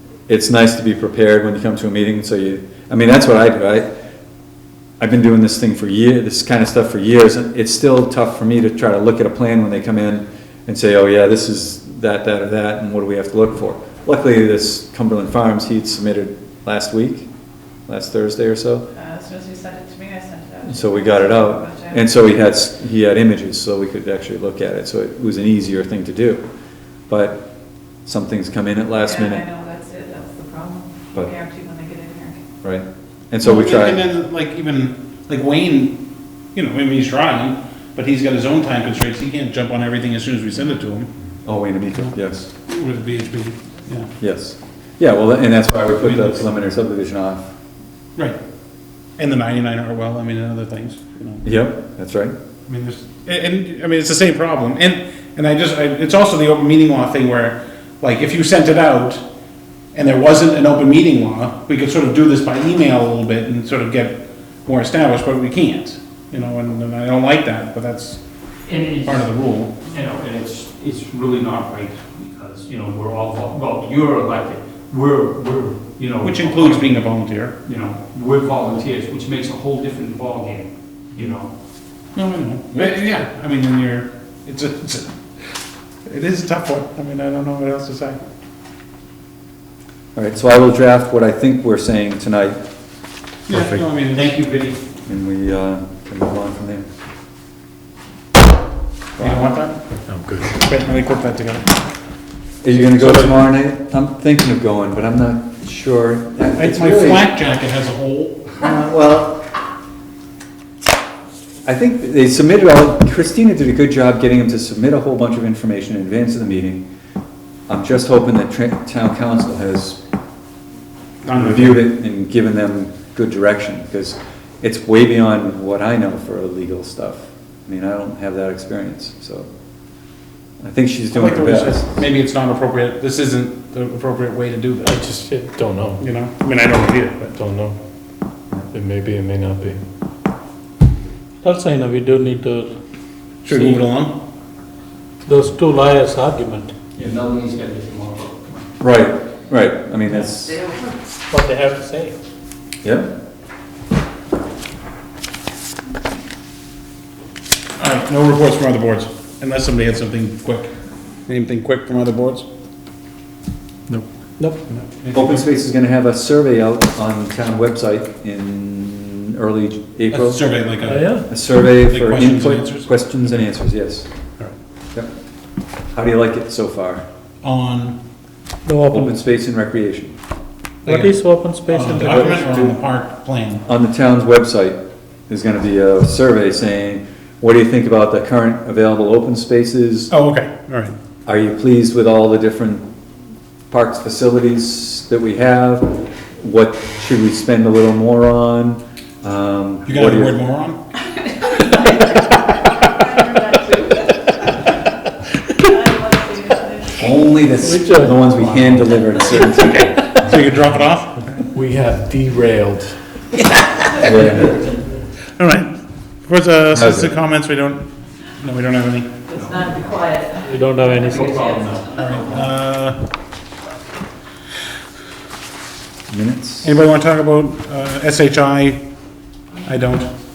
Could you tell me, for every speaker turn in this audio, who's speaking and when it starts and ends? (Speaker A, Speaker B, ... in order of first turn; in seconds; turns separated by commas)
Speaker A: 0.3-3.9, Speaker A: 5.0-17.3, Speaker A: 17.9-18.9, Speaker B: 19.0-20.6, Speaker A: 20.6-26.4, Speaker A: 27.1-27.5, Speaker A: 28.1-29.5, Speaker B: 29.4-32.4, Speaker A: 31.1-31.4, Speaker A: 32.6-34.0, Speaker C: 33.4-36.0, Speaker C: 36.5-41.1, Speaker A: 41.5-42.5, Speaker C: 42.7-44.1, Speaker A: 44.2-47.5, Speaker C: 45.9-46.5, Speaker C: 49.2-51.4, Speaker A: 51.4-52.3, Speaker C: 52.7-59.2, Speaker C: 59.9-68.2, Speaker D: 68.7-69.3, Speaker C: 69.0-69.8, Speaker D: 69.8-77.0, Speaker C: 76.2-77.6, Speaker D: 77.6-81.5, Speaker C: 82.2-85.1, Speaker C: 86.1-88.2, Speaker A: 90.2-92.6, Speaker C: 93.5-94.4, Speaker D: 94.1-94.8, Speaker A: 95.1-96.9, Speaker A: 99.2-99.6, Speaker C: 99.2-99.8, Speaker E: 100.1-100.5, Speaker C: 100.6-101.7, Speaker A: 102.6-107.3, Speaker C: 102.9-103.4, Speaker C: 106.5-108.6, Speaker A: 108.6-109.4, Speaker A: 111.7-116.9, Speaker A: 117.7-120.0, Speaker C: 121.2-121.9, Speaker A: 121.3-129.5, Speaker A: 130.6-132.0, Speaker C: 131.1-135.1, Speaker E: 134.9-136.0, Speaker C: 136.0-137.4, Speaker E: 137.3-137.8, Speaker E: 138.7-139.8, Speaker E: 141.4-142.7, Speaker C: 143.4-144.2, Speaker E: 145.3-146.7, Speaker D: 146.9-148.7, Speaker A: 148.8-150.7, Speaker E: 151.3-152.1, Speaker A: 152.8-153.1, Speaker C: 157.8-160.7, Speaker C: 161.3-162.5, Speaker E: 163.9-164.6, Speaker C: 164.7-165.5, Speaker A: 165.1-170.4, Speaker C: 170.1-171.1, Speaker E: 170.9-171.3, Speaker A: 171.2-174.1, Speaker C: 171.7-173.4, Speaker A: 175.9-177.1, Speaker C: 177.4-178.0, Speaker E: 178.7-179.1, Speaker A: 178.9-180.2, Speaker C: 180.9-181.1, Speaker E: 180.9-182.3, Speaker C: 181.7-183.6, Speaker A: 182.0-182.7, Speaker A: 183.7-190.1, Speaker C: 190.1-190.9, Speaker A: 191.3-192.9, Speaker A: 193.7-200.4, Speaker C: 199.9-200.8, Speaker B: 201.3-202.2, Speaker B: 203.0-204.0, Speaker B: 205.7-206.8, Speaker A: 206.9-210.1, Speaker E: 207.6-208.2, Speaker C: 208.3-208.7, Speaker C: 210.2-211.4, Speaker E: 211.5-213.0, Speaker A: 214.0-214.6, Speaker C: 215.4-215.7, Speaker C: 216.2-217.8, Speaker A: 216.7-217.2, Speaker C: 218.4-219.2, Speaker B: 219.5-221.0, Speaker E: 220.4-221.3, Speaker D: 221.0-222.5, Speaker C: 221.9-223.0, Speaker A: 226.1-226.8, Speaker C: 226.6-228.8, Speaker C: 229.7-230.1